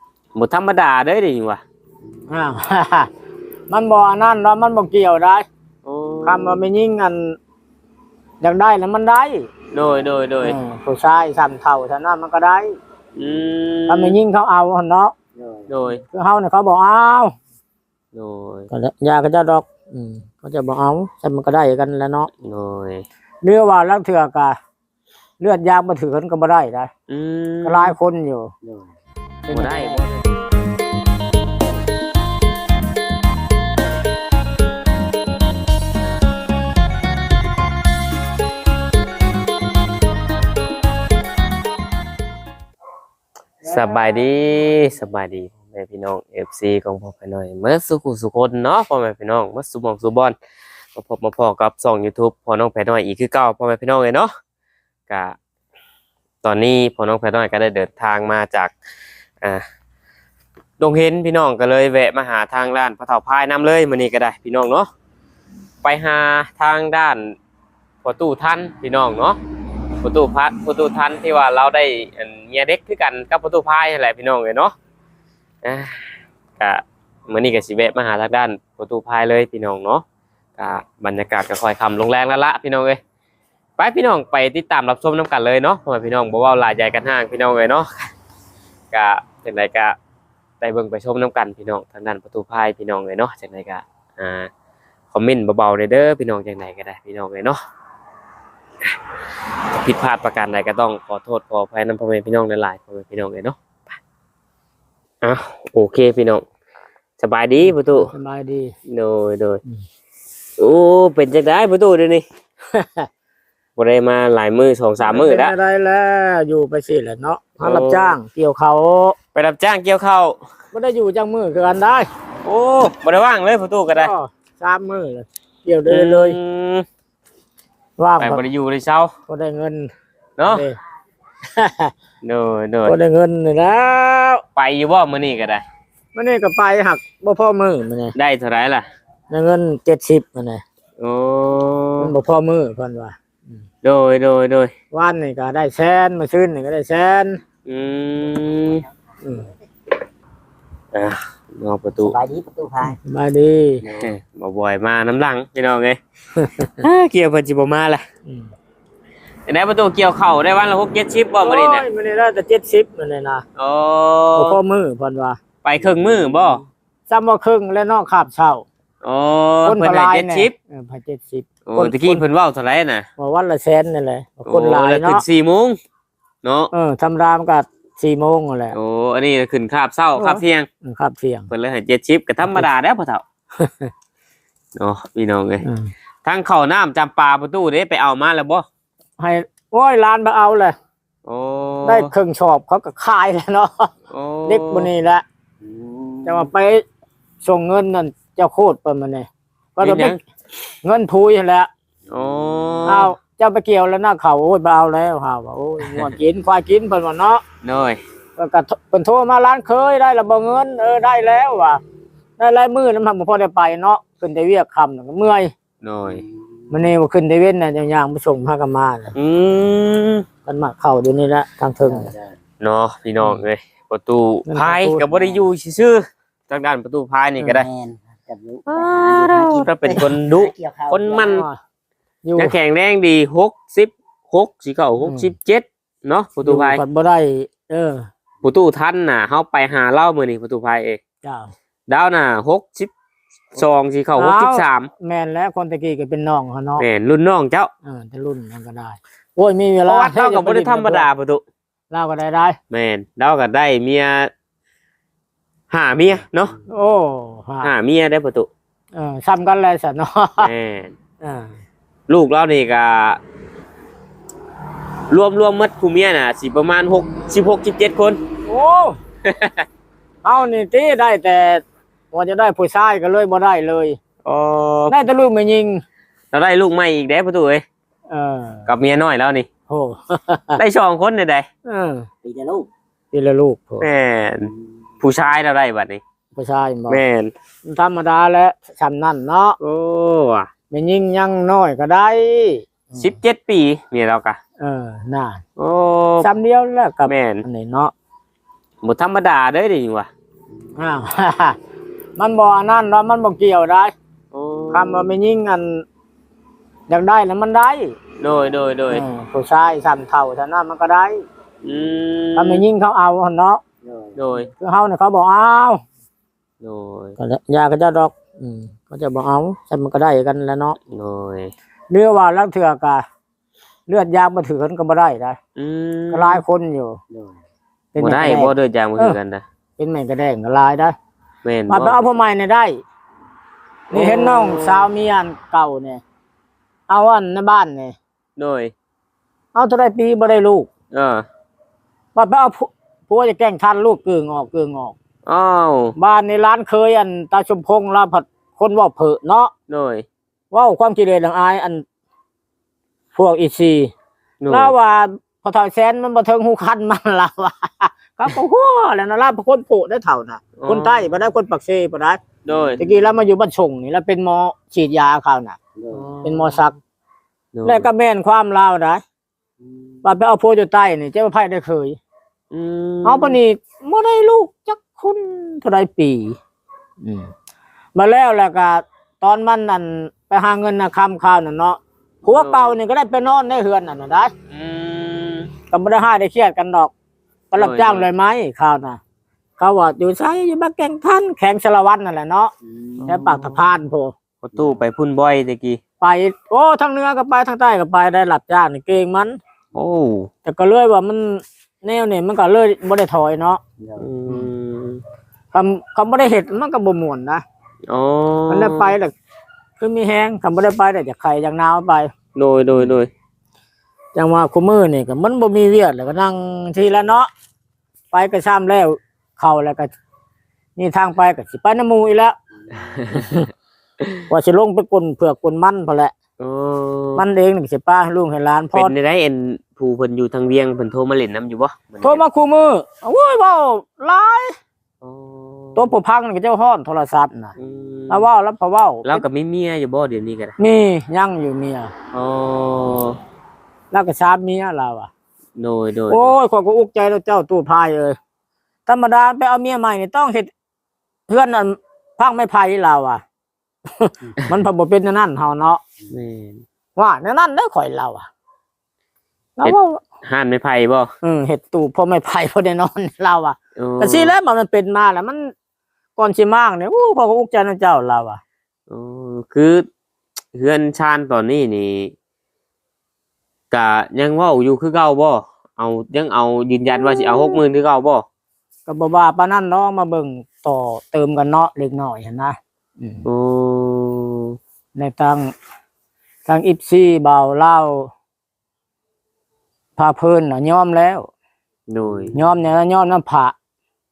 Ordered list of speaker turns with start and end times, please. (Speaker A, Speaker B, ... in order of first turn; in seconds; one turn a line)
Speaker A: 0.3-1.6
Speaker B: 2.3-3.1
Speaker B: 3.7-5.5
Speaker A: 5.8-6.7
Speaker B: 6.2-7.4
Speaker B: 8.4-9.5
Speaker A: 9.7-10.6
Speaker B: 10.4-12.8
Speaker A: 13.2-14.2
Speaker B: 13.9-15.1
Speaker C: 15.4-15.7
Speaker A: 15.7-16.0
Speaker B: 16.0-17.4
Speaker A: 18.1-18.7
Speaker B: 18.7-22.3
Speaker A: 22.4-23.1
Speaker B: 23.4-24.6
Speaker B: 25.4-26.9
Speaker A: 27.1-27.9
Speaker B: 27.6-28.5
Speaker C: 28.6-28.9
Speaker B: 29.5-30.1
Speaker A: 29.5-30.2
Speaker A: 43.6-50.4
Speaker A: 51.0-54.3
Speaker A: 55.1-55.4
Speaker A: 56.4-58.7
Speaker A: 60.8-64.9
Speaker A: 65.8-67.4
Speaker A: 68.0-69.4
Speaker A: 70.0-74.8
Speaker A: 75.6-80.0
Speaker A: 80.6-83.0
Speaker A: 83.8-88.1
Speaker A: 88.9-90.0
Speaker A: 90.6-94.5
Speaker A: 95.1-97.6
Speaker A: 99.8-103.6
Speaker A: 105.2-106.4
Speaker A: 107.2-108.1
Speaker B: 107.7-108.7
Speaker A: 108.9-109.6
Speaker A: 110.6-112.2
Speaker B: 112.7-113.1
Speaker A: 113.8-115.5
Speaker B: 115.0-119.2
Speaker A: 117.6-118.2
Speaker A: 119.3-120.4
Speaker B: 120.7-122.1
Speaker A: 122.5-124.1
Speaker B: 123.9-126.4
Speaker A: 125.9-126.9
Speaker B: 128.0-128.4
Speaker A: 128.2-129.1
Speaker B: 129.3-129.9
Speaker A: 130.4-130.7
Speaker B: 130.5-130.8
Speaker B: 131.6-131.9
Speaker A: 132.2-133.0
Speaker B: 132.8-134.4
Speaker A: 134.6-135.6
Speaker B: 136.2-138.2
Speaker A: 138.2-138.9
Speaker B: 139.3-140.6
Speaker A: 141.0-142.1
Speaker B: 142.0-143.2
Speaker A: 143.8-144.7
Speaker B: 144.9-147.4
Speaker A: 147.7-148.8
Speaker B: 149.2-149.5
Speaker A: 150.9-152.1
Speaker C: 152.0-153.0
Speaker B: 153.0-153.8
Speaker A: 153.8-156.0
Speaker B: 156.4-156.8
Speaker A: 156.7-158.1
Speaker A: 159.5-161.8
Speaker B: 161.4-163.4
Speaker A: 163.6-164.6
Speaker B: 164.3-165.4
Speaker A: 165.6-166.6
Speaker B: 167.1-168.7
Speaker A: 169.0-170.5
Speaker B: 169.7-172.2
Speaker A: 171.7-173.1
Speaker B: 173.2-175.2
Speaker A: 174.5-175.8
Speaker A: 176.4-176.7
Speaker B: 176.7-178.8
Speaker A: 178.7-180.7
Speaker B: 180.2-181.5
Speaker A: 181.5-183.2
Speaker B: 183.6-183.9
Speaker A: 184.8-185.6
Speaker B: 185.6-185.9
Speaker A: 186.2-188.7
Speaker B: 189.2-190.8
Speaker A: 191.2-192.1
Speaker B: 191.8-193.9
Speaker A: 194.1-194.9
Speaker B: 194.5-195.2
Speaker C: 195.6-196.5
Speaker B: 196.3-196.8
Speaker B: 197.4-200.2
Speaker A: 199.8-200.2
Speaker B: 200.8-201.7
Speaker A: 202.1-203.1
Speaker B: 202.8-207.4
Speaker A: 207.6-208.0
Speaker B: 208.4-211.8
Speaker B: 212.4-215.5
Speaker A: 215.8-216.2
Speaker C: 216.1-216.3
Speaker B: 216.7-219.2
Speaker A: 219.2-220.3
Speaker B: 220.5-222.1
Speaker C: 221.8-222.4
Speaker A: 222.6-227.7
Speaker B: 224.5-225.0
Speaker C: 225.0-225.4
Speaker C: 227.4-231.4
Speaker A: 228.7-231.4
Speaker B: 231.2-231.6
Speaker B: 232.2-232.6
Speaker A: 232.4-236.8
Speaker B: 235.0-235.3
Speaker B: 236.4-238.1
Speaker A: 238.4-241.0
Speaker B: 241.2-241.5
Speaker A: 241.9-242.9
Speaker A: 243.5-244.9
Speaker B: 244.2-246.8
Speaker A: 246.8-247.7
Speaker B: 247.8-251.1
Speaker A: 249.9-251.4
Speaker B: 251.9-252.6
Speaker A: 252.7-254.3
Speaker A: 255.7-256.5
Speaker B: 256.7-257.7
Speaker A: 257.6-258.5
Speaker B: 258.9-260.5
Speaker A: 260.4-260.9
Speaker B: 261.2-261.6
Speaker A: 262.1-263.2
Speaker A: 265.1-268.2
Speaker B: 268.5-269.0
Speaker A: 269.2-269.7
Speaker B: 270.2-274.0
Speaker A: 274.2-274.9
Speaker B: 274.9-275.8
Speaker A: 276.3-277.6
Speaker B: 278.1-278.7
Speaker A: 278.7-279.5
Speaker B: 279.7-280.6
Speaker A: 280.6-281.5
Speaker B: 281.7-282.1
Speaker C: 282.2-282.7
Speaker B: 283.1-283.9
Speaker A: 283.8-286.0
Speaker B: 286.4-287.0
Speaker A: 286.9-287.3
Speaker B: 287.6-289.6
Speaker A: 289.6-290.5
Speaker B: 290.7-293.1
Speaker A: 293.0-294.4
Speaker B: 294.6-295.4
Speaker A: 295.6-296.3
Speaker B: 296.2-297.9
Speaker A: 297.1-297.4
Speaker A: 298.8-300.1
Speaker B: 300.8-301.6
Speaker B: 302.2-303.9
Speaker A: 304.3-305.1
Speaker B: 304.7-305.9
Speaker B: 306.9-307.9
Speaker A: 308.2-309.0
Speaker B: 308.9-311.2
Speaker A: 311.6-312.6
Speaker B: 312.4-313.6
Speaker C: 313.8-314.2
Speaker A: 314.2-314.5
Speaker B: 314.5-315.8
Speaker A: 316.6-317.2
Speaker B: 317.2-320.8
Speaker A: 320.9-321.5
Speaker B: 321.9-323.1
Speaker B: 323.9-325.4
Speaker A: 325.6-326.4
Speaker B: 326.1-327.0
Speaker C: 327.1-327.4
Speaker B: 327.9-329.2
Speaker A: 328.0-329.4
Speaker B: 329.8-330.9
Speaker A: 331.4-332.0
Speaker B: 331.7-332.8
Speaker B: 333.9-336.0
Speaker A: 333.9-334.9
Speaker B: 336.9-338.0
Speaker A: 338.4-338.7
Speaker B: 339.5-340.7
Speaker A: 340.9-341.3
Speaker B: 342.1-344.9
Speaker A: 345.3-345.9
Speaker B: 346.0-349.5
Speaker A: 349.7-350.1
Speaker B: 350.5-351.9
Speaker B: 353.1-353.9
Speaker A: 354.4-354.7
Speaker B: 354.5-362.2
Speaker A: 360.6-361.1
Speaker A: 362.4-362.8
Speaker B: 362.8-365.6
Speaker C: 365.8-366.1
Speaker A: 365.9-366.6
Speaker B: 366.2-366.8
Speaker A: 367.5-367.9
Speaker B: 367.6-369.0
Speaker C: 369.7-369.9
Speaker B: 370.0-372.0
Speaker A: 372.5-373.4
Speaker B: 373.0-376.4
Speaker B: 377.0-377.3
Speaker B: 377.9-384.3
Speaker A: 382.2-382.8
Speaker A: 384.5-385.5
Speaker B: 385.7-386.9
Speaker B: 387.5-389.0
Speaker A: 387.6-388.1
Speaker B: 389.6-392.5
Speaker C: 392.7-393.4
Speaker A: 393.0-393.6
Speaker B: 393.1-394.1
Speaker A: 394.4-395.8
Speaker C: 394.5-394.8
Speaker B: 396.0-399.4
Speaker A: 399.8-400.3
Speaker B: 400.4-403.6
Speaker C: 403.8-404.1
Speaker A: 404.0-405.0
Speaker B: 405.5-407.4
Speaker A: 407.9-408.9
Speaker B: 408.5-409.1
Speaker B: 409.8-412.1
Speaker A: 412.4-413.1
Speaker B: 414.1-417.3
Speaker B: 418.1-419.9
Speaker B: 420.8-422.4
Speaker C: 422.7-423.0
Speaker A: 422.9-423.4
Speaker B: 423.1-423.5
Speaker B: 424.3-426.1
Speaker A: 426.4-427.2
Speaker B: 427.2-428.9
Speaker A: 428.7-432.2
Speaker B: 432.0-434.6
Speaker A: 435.0-435.9
Speaker B: 435.8-437.6
Speaker A: 437.6-438.3
Speaker B: 438.1-439.2
Speaker A: 439.1-440.6
Speaker B: 440.6-441.9
Speaker A: 442.1-443.2
Speaker B: 443.9-445.1
Speaker A: 445.6-446.3
Speaker B: 446.1-448.2
Speaker B: 448.9-450.5
Speaker B: 451.3-453.2
Speaker B: 454.0-455.8
Speaker A: 456.1-456.6
Speaker B: 457.0-458.3
Speaker B: 459.6-460.0
Speaker A: 459.6-461.1
Speaker B: 461.2-465.5
Speaker A: 463.8-464.3
Speaker B: 466.2-468.4
Speaker A: 468.9-469.9
Speaker A: 470.5-472.1
Speaker A: 473.7-478.2
Speaker B: 478.9-483.2
Speaker A: 483.2-484.6
Speaker B: 484.9-485.5
Speaker B: 486.5-488.1
Speaker B: 490.0-491.3
Speaker A: 491.9-492.4
Speaker B: 492.3-493.6